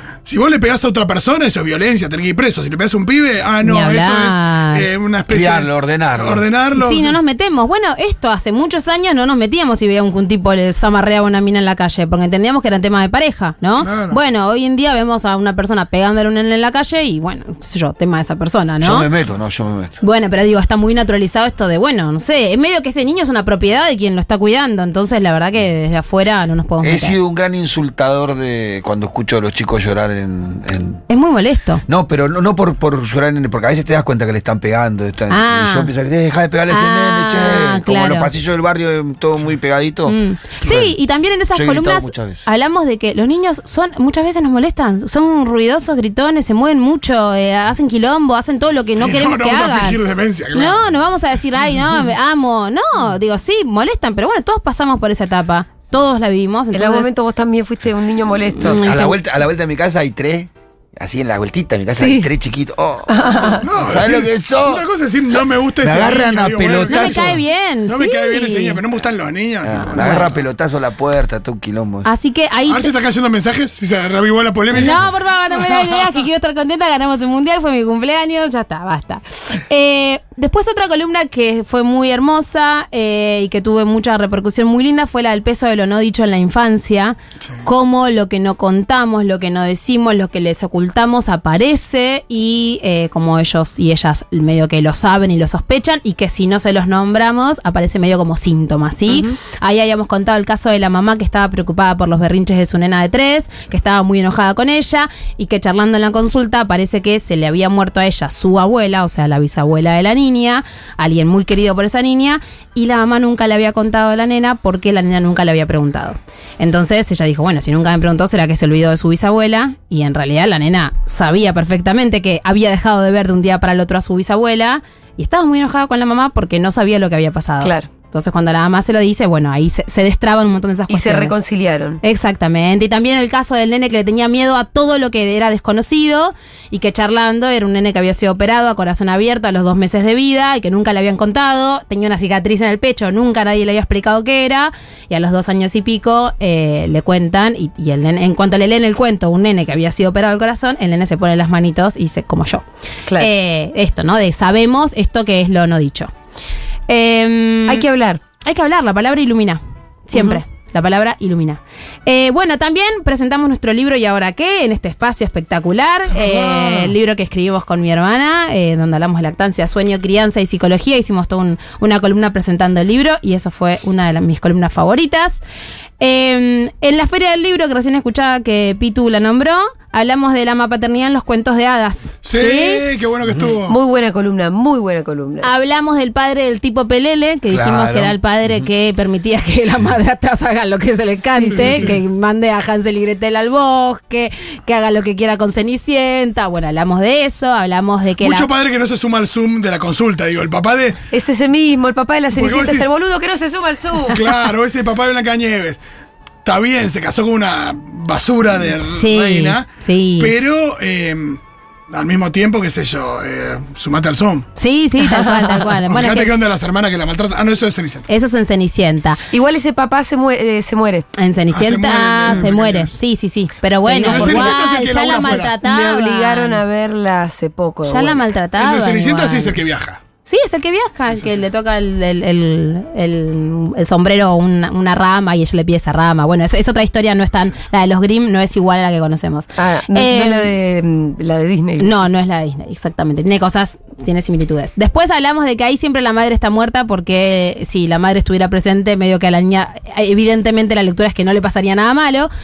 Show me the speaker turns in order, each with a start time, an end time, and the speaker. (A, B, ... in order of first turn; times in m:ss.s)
0:00.3-0:07.2 A
0:03.6-0:04.9 B
0:05.3-0:06.4 C
0:06.8-0:19.1 B
0:13.8-0:14.2 A
0:18.8-0:19.9 C
0:20.0-0:27.2 B
0:26.8-0:31.0 C
0:31.1-0:31.8 B
0:31.9-0:41.0 C
0:35.3-0:35.9 B
0:36.7-0:38.3 B
0:40.1-0:50.0 B
0:41.5-0:42.5 C
0:49.0-0:50.9 A
0:50.5-0:57.1 B
0:56.7-0:58.8 D
0:58.6-0:59.2 B
0:58.6-1:04.8 C
1:01.9-1:02.3 D
1:03.1-1:03.6 D
1:03.6-1:10.4 A
1:05.8-1:07.4 C
1:06.9-1:08.8 B
1:09.6-1:12.1 C
1:09.9-1:10.2 B
1:12.0-1:12.9 B
1:12.7-1:15.0 A
1:14.7-2:11.4 B
1:15.6-1:16.1 A
1:39.1-1:39.3 D
2:07.6-2:07.9 D
2:10.9-2:12.0 D
2:12.0-2:32.6 B
2:33.2-2:36.1 B
2:36.9-2:37.8 B
2:37.6-2:38.2 D
2:38.4-2:55.4 B
2:40.1-2:40.4 D
2:46.1-2:46.9 A
2:56.0-3:02.8 B
3:02.2-3:03.8 A
3:03.7-3:05.5 D
3:05.4-3:18.5 B
3:07.5-3:08.2 C
3:11.4-3:11.9 D
3:11.5-3:12.0 A
3:18.2-3:21.0 A
3:21.1-3:24.2 D
3:22.3-3:22.9 A
3:24.1-3:25.8 A
3:26.4-3:29.7 A
3:28.8-3:30.3 B
3:30.2-3:34.5 A
3:34.6-3:36.3 B
3:35.0-3:35.7 D
3:35.9-3:38.1 A
3:38.1-3:39.2 B
3:39.3-3:41.1 D
3:41.2-3:46.6 B
3:41.5-3:42.9 A
3:43.9-3:44.6 D
3:44.0-3:45.5 A
3:45.6-3:48.2 D
3:47.9-3:49.6 B
3:48.6-3:50.0 A
3:50.3-4:00.5 B
3:59.6-4:02.1 D
4:01.8-4:12.3 B